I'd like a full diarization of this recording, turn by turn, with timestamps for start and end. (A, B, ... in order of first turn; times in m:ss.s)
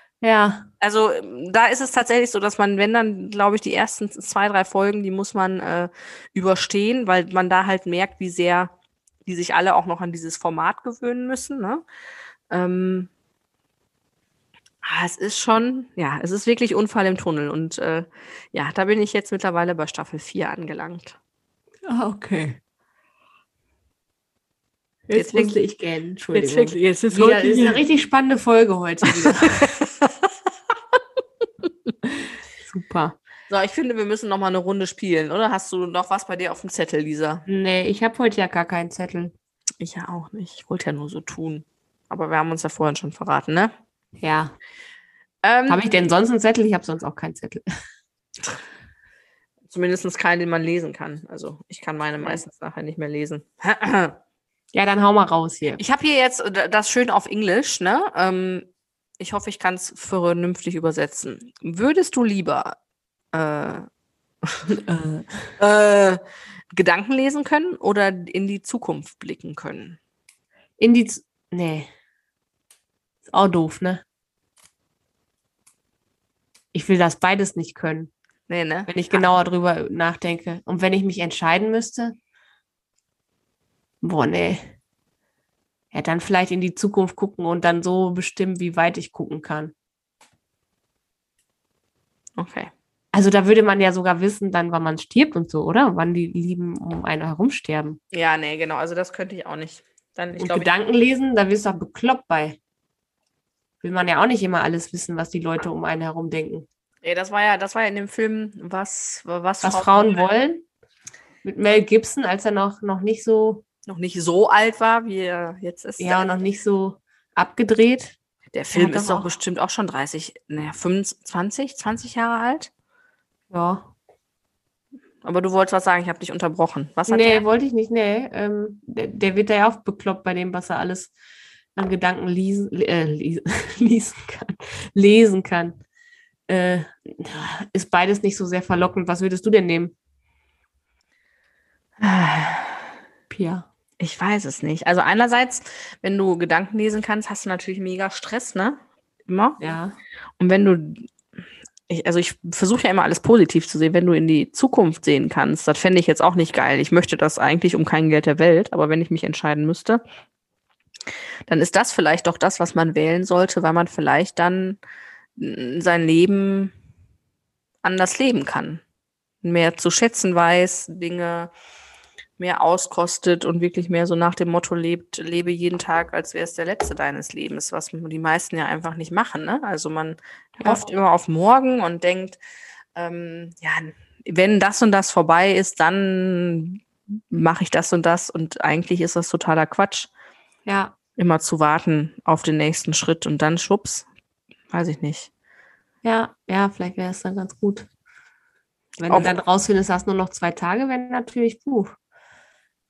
0:00.2-0:00.7 A
0:00.8-0:08.7 B
0:09.3-0:11.8 B
0:12.5-0:13.1 B
0:14.8-0:21.2 B
0:21.8-0:22.6 A
0:25.1-0:29.7 A
0:25.1-0:25.6 B
0:26.3-0:27.8 B
0:29.4-0:30.3 B
0:32.6-0:33.2 A
0:33.5-0:37.4 B
0:37.5-0:39.3 A
0:39.8-0:43.7 B
0:44.2-0:44.5 A
0:45.4-0:45.8 B
0:45.7-0:47.6 A
0:49.7-0:54.2 B
0:54.7-0:55.8 A
0:55.8-0:58.7 B
0:59.2-1:02.8 B
1:03.3-1:03.9 B
1:04.7-1:05.4 A
1:05.6-1:06.2 B
1:06.7-1:10.0 B
1:10.8-1:11.9 A
1:13.3-1:14.0 A
1:16.7-1:18.1 A
1:18.5-1:19.3 B
1:18.9-1:22.2 A
1:24.0-1:24.7 A
1:25.9-1:29.7 A
1:32.4-1:32.7 B
1:33.1-1:38.0 A
1:38.1-1:40.7 B
1:40.4-1:42.6 A
1:43.8-1:46.7 A
1:47.0-1:50.2 B
1:49.6-1:50.6 A
1:51.4-1:53.6 A
1:53.9-1:56.3 B
1:56.0-1:58.2 A
1:58.5-2:02.7 B
1:58.7-1:59.3 A
2:03.5-2:03.9 A
2:05.2-2:07.4 B
2:07.1-2:11.1 A
2:11.8-2:15.8 A
2:16.5-2:19.9 A
2:22.0-2:22.9 B
2:23.3-2:23.7 A
2:24.0-2:29.6 B
2:29.6-2:30.0 A
2:30.4-2:31.1 B
2:31.9-2:40.0 B
2:41.5-2:44.8 B
2:45.4-2:46.7 B
2:47.8-2:48.8 B
2:49.4-2:51.5 B
2:52.4-3:02.4 B
3:00.6-3:00.8 A
3:03.0-3:10.1 B
3:10.7-3:10.9 A
3:11.2-3:14.1 B
3:14.7-3:15.3 B
3:16.0-3:17.9 A
3:19.0-3:21.9 A